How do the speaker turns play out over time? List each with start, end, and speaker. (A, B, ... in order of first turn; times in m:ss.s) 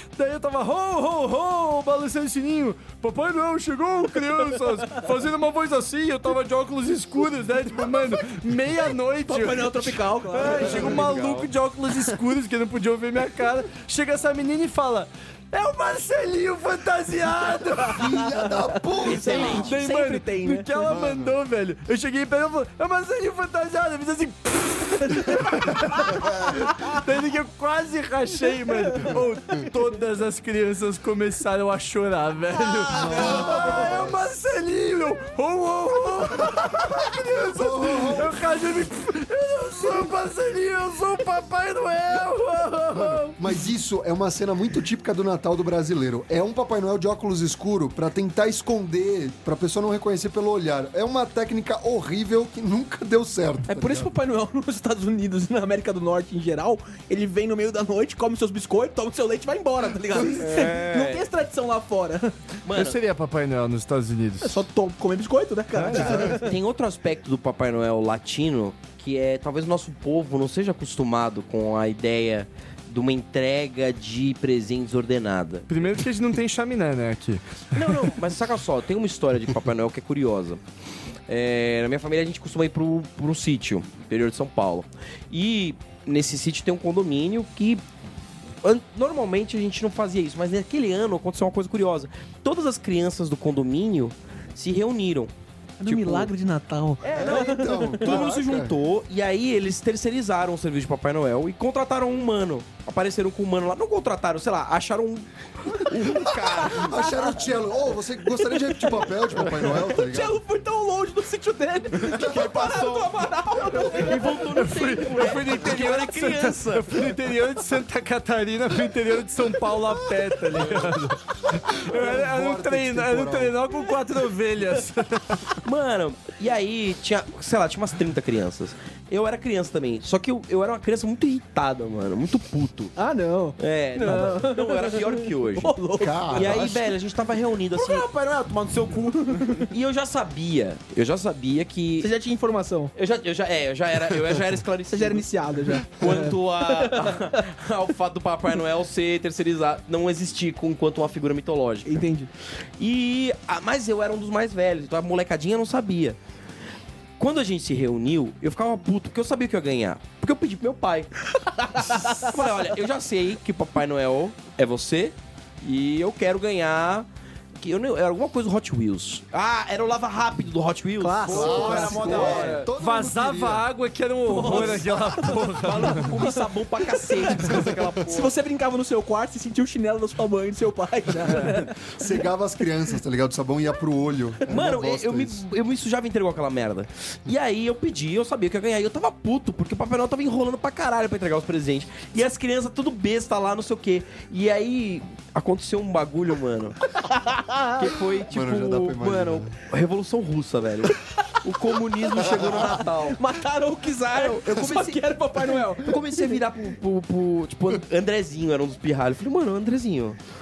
0:00.2-0:18.2 A
0:09.2-0:11.2 B
0:10.4-0:11.5 C
0:17.8-0:19.7 D
0:18.6-0:20.7 B
0:19.0-0:19.7 C
0:19.3-0:43.4 A
0:20.8-0:21.4 D
0:28.8-0:29.7 B
0:32.9-0:34.2 D
0:32.9-0:33.8 B
0:33.0-0:33.8 C
0:37.4-0:38.4 D
0:42.9-0:54.1 D
0:53.7-1:02.4 B
1:00.2-1:01.3 C
1:02.6-1:03.0 C
1:02.7-1:04.6 A
1:04.4-1:06.5 B
1:05.7-1:06.3 A
1:06.0-1:15.7 C
1:15.7-1:18.0 A
1:17.7-1:20.6 C
1:21.3-1:27.8 C
1:28.6-1:35.3 C
1:35.8-1:38.3 B
1:35.8-1:36.3 C
1:37.0-1:47.2 C
1:37.1-1:38.8 D
1:46.1-1:50.4 D
1:46.6-1:47.3 B
1:48.4-1:54.5 B
1:52.0-1:52.5 D
1:52.0-1:57.1 C
1:54.5-2:05.6 A
2:01.7-2:03.6 D
2:05.6-2:12.9 C
2:13.0-2:16.6 B
2:13.6-2:15.8 C
2:16.0-2:16.9 D
2:16.3-2:18.1 C
2:17.7-2:19.6 E
2:18.9-2:19.7 B
2:19.6-2:22.1 C
2:22.0-2:22.9 B
2:22.9-2:25.3 C
2:24.9-2:27.4 B
2:25.8-2:32.0 C
2:31.8-2:32.3 B
2:32.8-2:36.2 C
2:37.2-2:47.1 C
2:41.6-2:42.4 B
2:47.6-2:52.7 C
2:51.0-2:52.6 B
2:51.2-2:53.6 D
2:51.3-2:52.7 E
2:52.7-2:56.2 A
2:54.2-3:01.9 B
2:54.3-2:58.3 C
3:01.7-3:05.4 D
3:04.5-3:16.8 C
3:17.0-3:18.2 B
3:17.8-3:23.2 C
3:18.3-3:19.5 D
3:21.9-3:26.4 B
3:24.0-3:30.2 C